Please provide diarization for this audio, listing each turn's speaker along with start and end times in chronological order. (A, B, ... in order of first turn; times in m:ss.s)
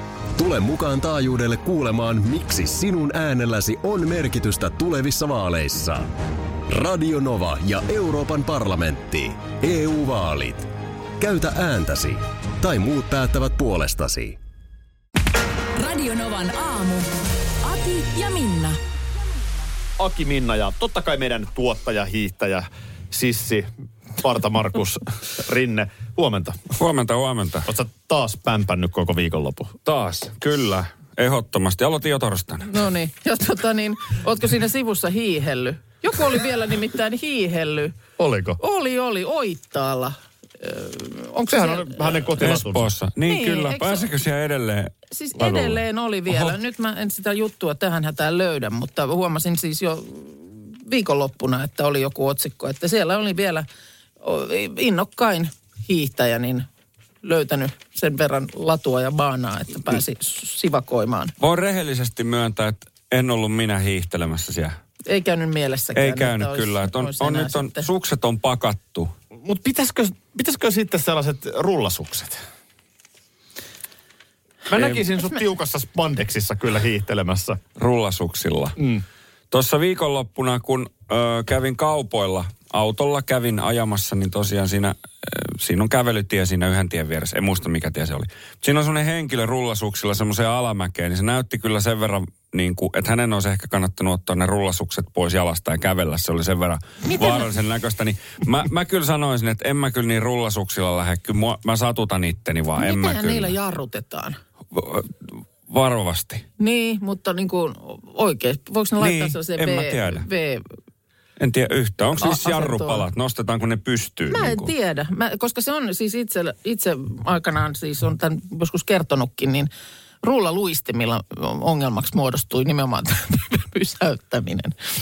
0:00.4-0:06.1 A
0:06.7-0:14.4 A
0:15.8-0:17.1 B
0:17.6-0:18.8 B
0:20.0-0:26.7 C
0:26.8-0:27.7 D
0:27.6-0:29.8 C
0:29.9-0:32.7 D
0:32.6-0:38.0 E
0:38.2-0:38.6 C
0:38.6-0:42.4 E
0:41.5-0:42.9 C
0:42.4-0:46.5 D
0:43.3-0:44.1 E
0:45.1-0:53.7 E
0:54.2-0:56.7 E
0:57.2-1:01.3 E
1:01.4-1:04.8 D
1:05.1-1:07.9 E
1:06.0-1:09.1 D
1:09.4-1:12.4 C
1:14.7-1:17.6 C
1:17.8-1:18.8 D
1:18.8-1:19.0 C
1:19.5-1:43.5 D
1:37.0-1:37.5 E
1:42.8-1:44.4 E
1:44.7-1:46.4 D
1:46.6-1:50.6 E
1:49.0-1:50.3 D
1:51.4-1:54.7 D
1:52.2-1:53.0 E
1:54.3-1:59.7 E
2:00.2-2:04.8 E